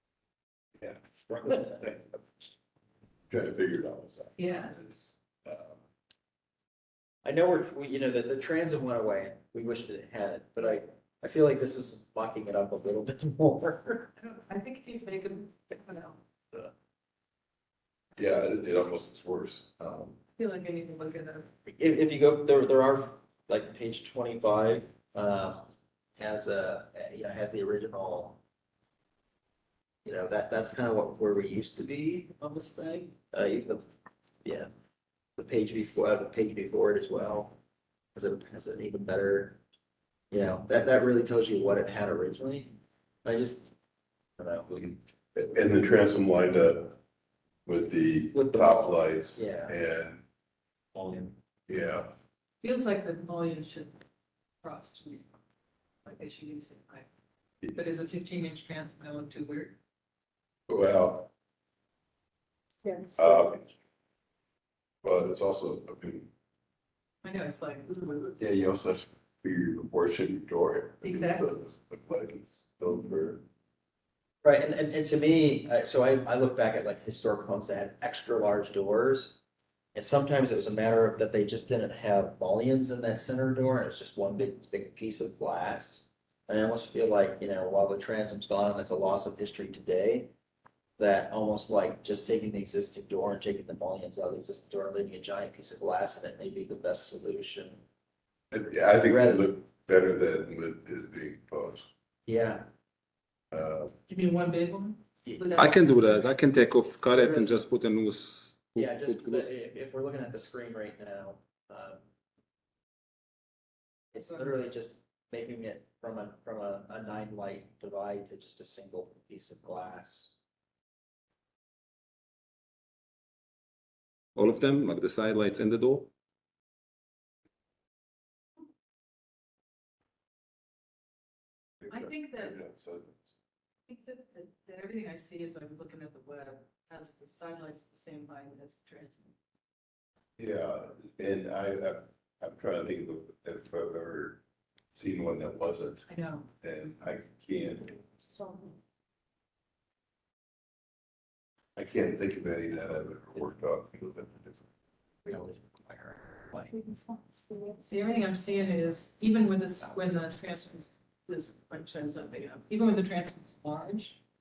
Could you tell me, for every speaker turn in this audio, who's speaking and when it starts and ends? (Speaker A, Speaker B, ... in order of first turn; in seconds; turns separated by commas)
Speaker A: 1.3-2.2, Speaker B: 3.3-5.8, Speaker C: 4.4-4.8, Speaker A: 7.2-14.1, Speaker C: 14.2-16.2, Speaker B: 18.2-20.2, Speaker C: 20.4-21.5, Speaker A: 21.8-28.4, Speaker A: 30.1-33.9, Speaker A: 34.4-34.7, Speaker A: 35.4-37.6, Speaker A: 38.1-39.6, Speaker A: 40.3-43.7, Speaker A: 44.4-45.0, Speaker B: 45.4-47.0, Speaker B: 47.7-50.2, Speaker A: 48.3-49.8, Speaker A: 50.9-51.4, Speaker B: 51.7-52.1, Speaker C: 52.6-54.0, Speaker C: 54.6-55.3, Speaker C: 56.0-57.1, Speaker C: 57.7-59.8, Speaker B: 60.7-61.3, Speaker D: 62.8-63.4, Speaker B: 63.2-63.6, Speaker B: 65.0-66.3, Speaker C: 67.2-68.4, Speaker B: 68.4-73.4, Speaker C: 71.0-71.5, Speaker A: 74.4-79.4, Speaker A: 79.9-90.3, Speaker A: 91.0-97.8, Speaker B: 98.5-101.9, Speaker A: 99.0-99.4, Speaker A: 102.3-102.7, Speaker B: 103.5-103.9, Speaker C: 104.1-106.3, Speaker A: 105.2-105.6, Speaker E: 105.5-109.5, Speaker A: 107.1-107.6, Speaker A: 108.8-112.0, Speaker A: 114.1-120.3, Speaker E: 124.4-126.1, Speaker B: 131.8-133.3, Speaker C: 131.9-132.6, Speaker C: 133.9-139.3, Speaker B: 140.4-144.4, Speaker B: 144.9-146.1, Speaker C: 146.1-146.5, Speaker B: 146.6-148.0, Speaker D: 148.4-148.7, Speaker B: 151.8-154.7, Speaker A: 155.2-156.7, Speaker D: 156.7-157.8, Speaker C: 157.8-164.2